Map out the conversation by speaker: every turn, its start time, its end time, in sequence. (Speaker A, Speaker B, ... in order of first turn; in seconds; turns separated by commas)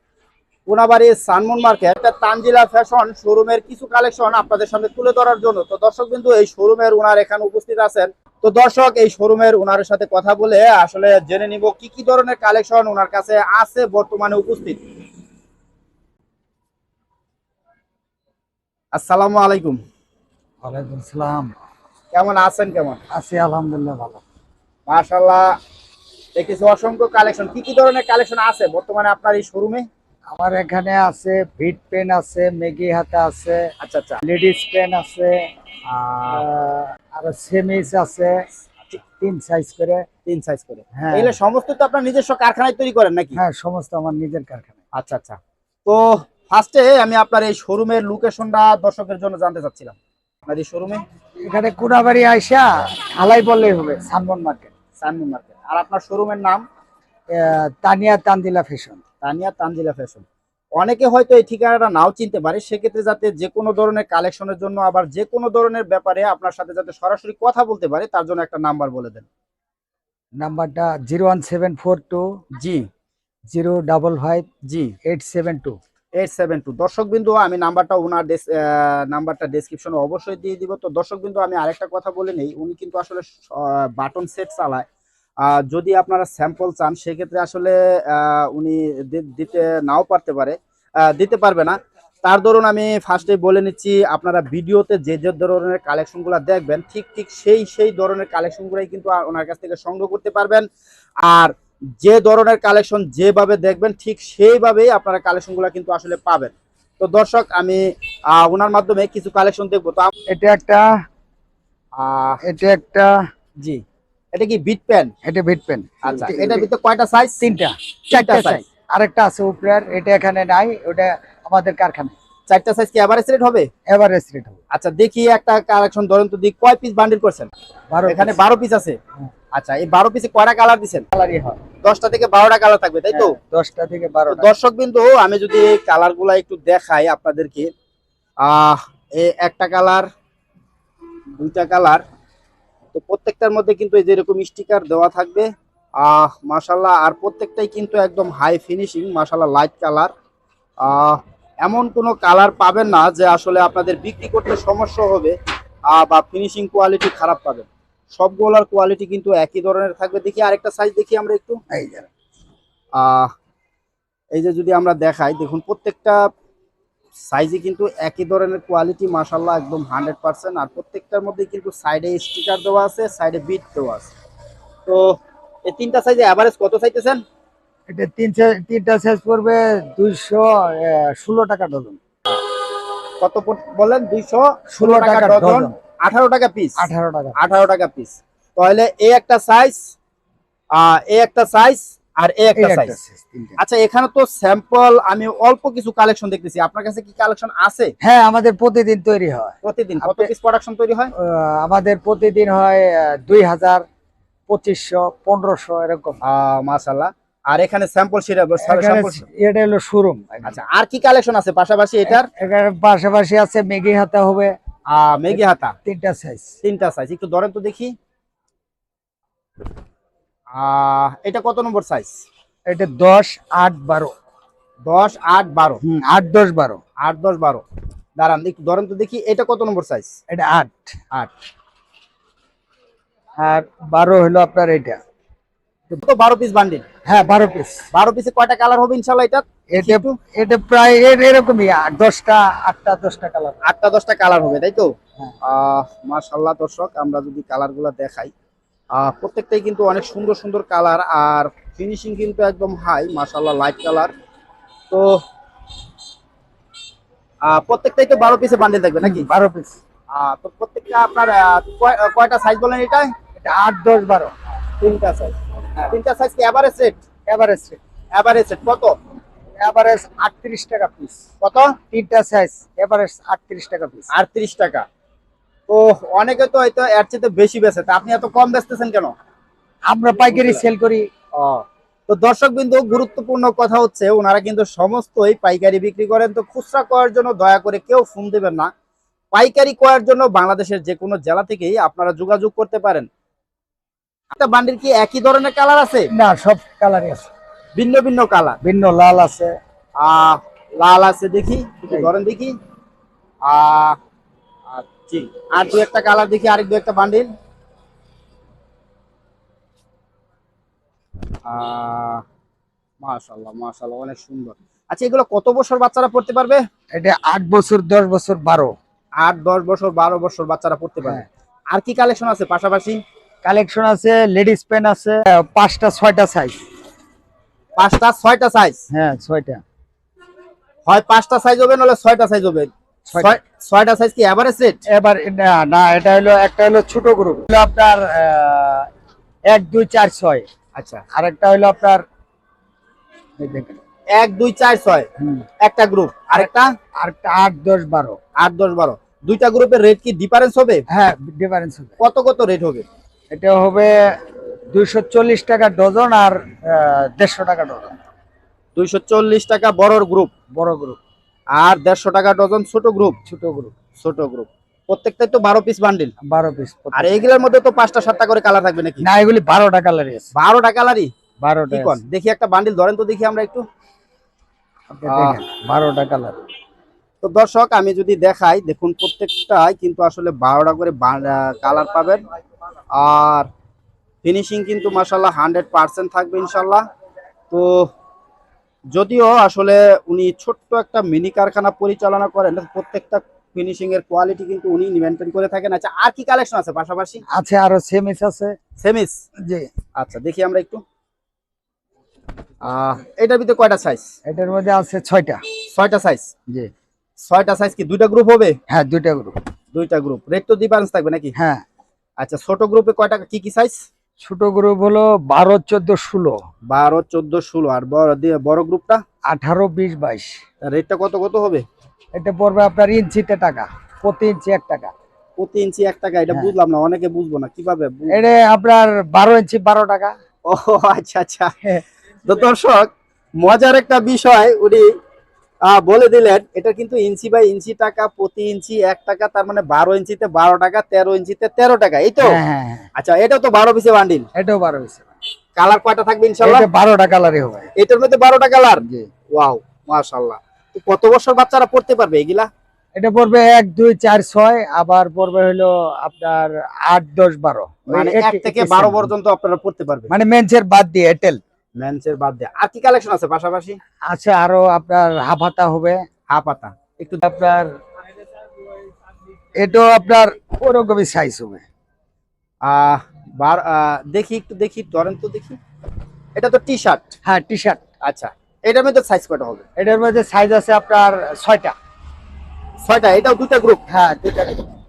Speaker A: 0.7-14.8, Speaker A: 18.9-19.8, Speaker B: 20.6-21.5, Speaker A: 22.1-23.0, Speaker B: 23.1-24.2, Speaker A: 24.9-25.6, Speaker A: 26.4-29.9, Speaker B: 30.3-33.6, Speaker A: 33.8-34.2, Speaker B: 34.2-35.5, Speaker A: 35.9-36.4, Speaker B: 36.3-38.5, Speaker B: 39.2-40.0, Speaker A: 40.3-43.4, Speaker B: 41.0-41.3, Speaker B: 43.4-44.7, Speaker A: 45.0-51.0, Speaker B: 51.4-54.7, Speaker A: 55.0-56.6, Speaker B: 57.3-59.0, Speaker A: 59.2-60.2, Speaker A: 60.8-69.3, Speaker B: 70.4-72.3, Speaker A: 72.6-72.9, Speaker B: 73.5-74.5, Speaker A: 74.7-75.0, Speaker B: 75.0-75.8, Speaker A: 76.2-84.9, Speaker A: 85.4-100.7, Speaker A: 101.2-110.1, Speaker B: 110.3-110.9, Speaker A: 112.0-112.4, Speaker B: 112.4-113.2, Speaker A: 114.3-115.1, Speaker B: 115.2-116.7, Speaker A: 116.0-117.4, Speaker B: 117.4-122.1, Speaker A: 118.1-118.6, Speaker A: 122.5-123.7, Speaker B: 123.9-124.6, Speaker A: 124.7-127.5, Speaker B: 127.9-128.4, Speaker A: 128.1-129.0, Speaker A: 129.5-131.1, Speaker B: 131.1-131.6, Speaker A: 131.8-133.4, Speaker B: 133.1-134.5, Speaker A: 134.3-137.7, Speaker A: 138.4-140.1, Speaker A: 141.4-142.0, Speaker A: 142.9-145.5, Speaker A: 146.0-150.1, Speaker A: 150.8-155.4, Speaker A: 155.9-161.6, Speaker B: 161.7-162.1, Speaker A: 162.9-163.3, Speaker A: 164.3-166.2, Speaker A: 167.3-174.1, Speaker A: 174.9-177.2, Speaker B: 177.9-182.0, Speaker A: 183.2-189.9, Speaker B: 184.7-185.8, Speaker B: 186.8-187.4, Speaker A: 190.7-193.0, Speaker B: 192.6-193.6, Speaker A: 193.6-197.9, Speaker B: 198.0-200.3, Speaker A: 199.6-201.1, Speaker B: 201.2-203.8, Speaker B: 204.5-206.2, Speaker A: 206.2-209.2, Speaker B: 208.6-210.6, Speaker A: 210.5-212.3, Speaker B: 212.1-214.6, Speaker A: 214.9-215.8, Speaker B: 215.3-216.6, Speaker A: 216.6-217.9, Speaker A: 220.6-222.2, Speaker B: 222.7-224.1, Speaker A: 224.8-225.8, Speaker B: 225.8-226.8, Speaker A: 227.0-227.6, Speaker A: 228.2-230.1, Speaker B: 230.3-230.9, Speaker B: 233.4-235.0, Speaker A: 236.0-236.8, Speaker B: 237.1-237.8, Speaker A: 237.9-240.2, Speaker B: 239.7-243.6, Speaker A: 243.6-244.9, Speaker A: 245.4-248.3, Speaker A: 248.9-254.1, Speaker A: 254.9-255.2, Speaker A: 257.4-259.3, Speaker B: 259.0-259.8, Speaker A: 260.1-263.1, Speaker B: 263.4-264.3, Speaker A: 264.8-265.4, Speaker A: 265.9-267.0, Speaker B: 267.3-267.8, Speaker A: 268.1-268.9, Speaker B: 269.6-271.2, Speaker A: 271.4-271.8, Speaker B: 271.9-274.1, Speaker A: 274.1-274.9, Speaker A: 275.7-279.1, Speaker B: 279.9-281.1, Speaker A: 280.3-280.7, Speaker A: 281.4-288.7, Speaker A: 289.3-293.1, Speaker A: 294.3-296.1, Speaker B: 296.1-297.3, Speaker A: 297.8-298.6, Speaker B: 298.6-299.6, Speaker A: 300.0-302.5, Speaker A: 303.4-304.0, Speaker A: 304.7-307.3, Speaker A: 311.5-312.2, Speaker A: 313.0-316.6, Speaker B: 317.0-318.8, Speaker A: 319.2-323.0, Speaker B: 323.4-326.6, Speaker A: 327.8-328.9, Speaker B: 328.9-329.6, Speaker A: 330.9-334.8, Speaker B: 333.1-333.4, Speaker B: 334.9-338.9, Speaker B: 339.5-340.5, Speaker A: 340.8-341.1, Speaker B: 341.1-342.0, Speaker B: 343.4-343.8, Speaker A: 344.1-345.1, Speaker B: 345.2-345.4, Speaker A: 345.6-346.7, Speaker B: 346.3-348.2, Speaker A: 348.4-350.8, Speaker B: 350.9-351.9, Speaker A: 352.0-352.9, Speaker B: 353.3-353.9, Speaker B: 354.7-358.0, Speaker A: 358.8-360.3, Speaker B: 360.5-361.0, Speaker A: 361.5-363.2, Speaker B: 363.3-363.7, Speaker A: 364.0-366.1, Speaker B: 366.3-367.2, Speaker A: 366.9-369.1, Speaker B: 369.0-370.3, Speaker A: 370.3-371.1, Speaker B: 371.4-372.0, Speaker A: 371.7-373.6, Speaker B: 374.9-376.4, Speaker A: 375.1-375.4, Speaker A: 377.2-382.2, Speaker A: 382.9-383.5, Speaker A: 384.2-386.9, Speaker A: 387.5-387.9, Speaker A: 388.9-397.2, Speaker B: 397.3-398.6, Speaker A: 398.8-399.2, Speaker A: 400.0-400.8, Speaker A: 402.6-404.1, Speaker B: 404.3-405.4, Speaker A: 405.7-406.3, Speaker A: 407.2-408.6, Speaker B: 408.7-409.4, Speaker A: 409.7-411.3, Speaker B: 411.4-411.6, Speaker A: 412.2-413.8, Speaker B: 414.2-416.4, Speaker A: 416.7-419.0, Speaker B: 419.3-420.4, Speaker A: 420.6-421.6, Speaker B: 422.2-424.9, Speaker A: 425.4-428.2, Speaker B: 428.1-430.1, Speaker A: 430.5-431.5, Speaker A: 432.2-432.9, Speaker A: 433.4-434.9, Speaker A: 435.6-442.4, Speaker B: 442.2-442.9, Speaker A: 443.0-444.2, Speaker B: 444.4-445.1, Speaker A: 445.6-446.7, Speaker B: 446.4-447.7, Speaker A: 447.8-448.8, Speaker B: 448.8-449.1, Speaker A: 449.4-452.5, Speaker B: 453.0-459.1, Speaker A: 457.9-460.1, Speaker B: 460.1-461.4, Speaker A: 461.8-463.8, Speaker B: 464.1-466.1, Speaker A: 466.3-467.2, Speaker B: 467.2-467.7, Speaker B: 469.6-471.6, Speaker A: 472.6-475.6, Speaker A: 476.4-477.1, Speaker B: 477.3-477.8, Speaker A: 478.0-479.6, Speaker B: 479.8-481.8, Speaker A: 482.8-483.8, Speaker B: 483.9-484.7